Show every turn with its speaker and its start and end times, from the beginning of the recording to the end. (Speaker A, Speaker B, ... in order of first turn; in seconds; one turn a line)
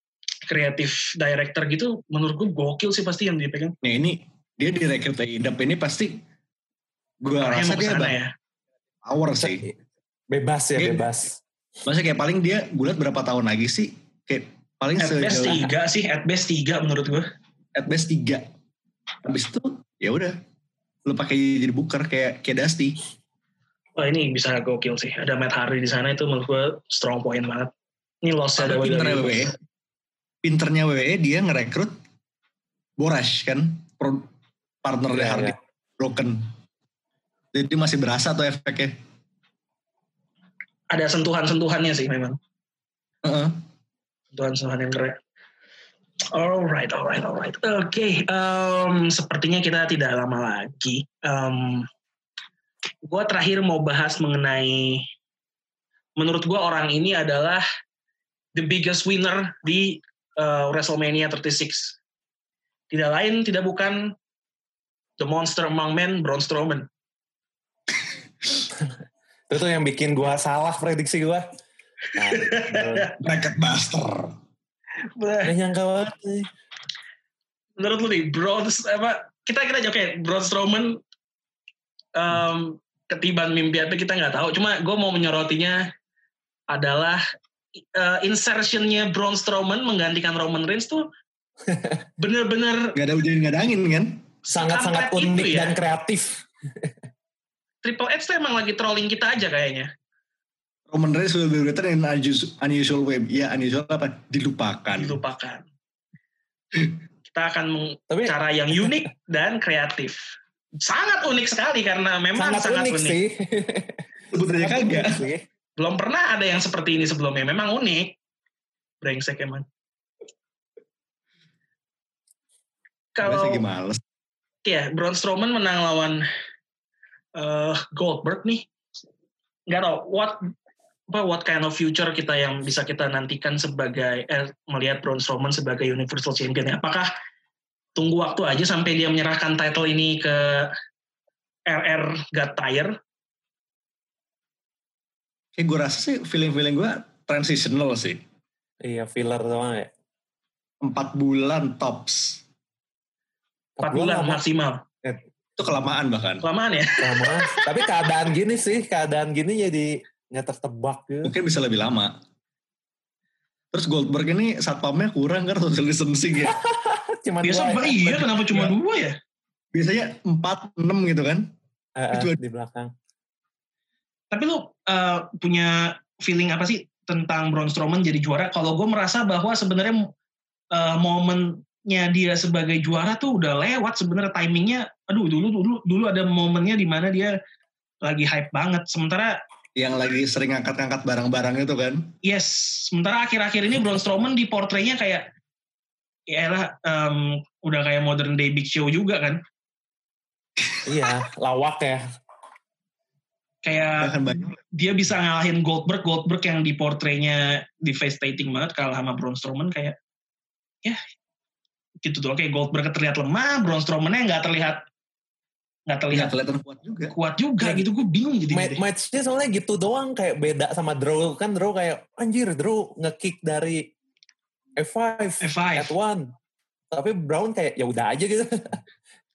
Speaker A: 0.5-3.7
Speaker B: 3.8-6.2
Speaker B: 7.2-8.2
Speaker A: 7.4-8.3
Speaker B: 9.0-9.7
Speaker C: 9.4-9.7
Speaker C: 10.3-11.4
Speaker B: 10.8-11.1
Speaker B: 11.8-15.7
Speaker A: 15.0-17.3
Speaker B: 17.7-18.5
Speaker B: 19.2-20.4
Speaker B: 21.1-23.0
Speaker A: 24.0-27.7
Speaker A: 28.2-29.5
Speaker B: 28.6-29.5
Speaker B: 30.4-31.9
Speaker B: 33.0-34.3
Speaker B: 34.8-36.5
Speaker C: 35.1-35.5
Speaker B: 37.5-38.9
Speaker A: 40.9-42.4
Speaker B: 43.2-43.6
Speaker A: 44.3-45.2
Speaker A: 46.3-51.9
Speaker A: 53.0-55.0
Speaker A: 56.2-57.6
Speaker A: 58.5-62.0
Speaker A: 62.9-64.1
Speaker A: 65.2-66.9
Speaker C: 69.5-71.5
Speaker C: 72.1-73.1
Speaker A: 72.2-73.1
Speaker B: 73.2-74.3
Speaker A: 75.2-75.5
Speaker C: 75.4-76.5
Speaker A: 77.8-81.0
Speaker A: 82.1-85.8
Speaker A: 86.7-87.2
Speaker A: 87.8-91.0
Speaker C: 91.7-92.0
Speaker A: 92.2-93.0
Speaker B: 92.9-94.3
Speaker A: 94.5-95.8
Speaker C: 94.5-96.9
Speaker A: 97.8-99.9
Speaker B: 100.9-105.2
Speaker A: 104.9-105.6
Speaker B: 106.7-107.0
Speaker A: 107.3-113.1
Speaker C: 108.1-109.0
Speaker C: 112.3-115.4
Speaker B: 114.3-115.3
Speaker A: 115.8-118.1
Speaker A: 119.0-119.6
Speaker A: 123.2-123.6
Speaker B: 123.2-124.0
Speaker A: 124.6-126.2
Speaker A: 127.3-128.7
Speaker A: 129.7-130.4
Speaker A: 131.1-137.1
Speaker A: 137.9-140.7
Speaker A: 141.7-142.9
Speaker B: 145.6-148.2
Speaker C: 148.8-149.9
Speaker B: 150.8-152.4
Speaker C: 153.8-154.4
Speaker A: 153.8-154.8
Speaker B: 155.6-156.4
Speaker A: 156.4-157.7
Speaker C: 157.0-161.3
Speaker B: 161.2-162.2
Speaker B: 163.7-166.5
Speaker C: 166.4-168.7
Speaker A: 167.4-169.2
Speaker B: 169.7-171.5
Speaker C: 171.9-172.9
Speaker B: 172.1-172.4
Speaker A: 174.3-180.1
Speaker A: 180.7-187.3
Speaker A: 188.0-189.3
Speaker B: 189.8-192.1
Speaker A: 192.2-195.2
Speaker A: 196.3-199.4
Speaker B: 200.6-201.1
Speaker C: 200.8-202.0
Speaker A: 203.6-204.2
Speaker B: 204.0-204.6
Speaker A: 204.7-209.9
Speaker A: 212.0-214.8
Speaker A: 215.9-216.3
Speaker B: 216.1-217.1
Speaker A: 217.1-218.8
Speaker C: 217.6-217.8
Speaker C: 218.5-223.9
Speaker C: 224.8-226.3
Speaker A: 225.4-225.9
Speaker C: 226.9-228.8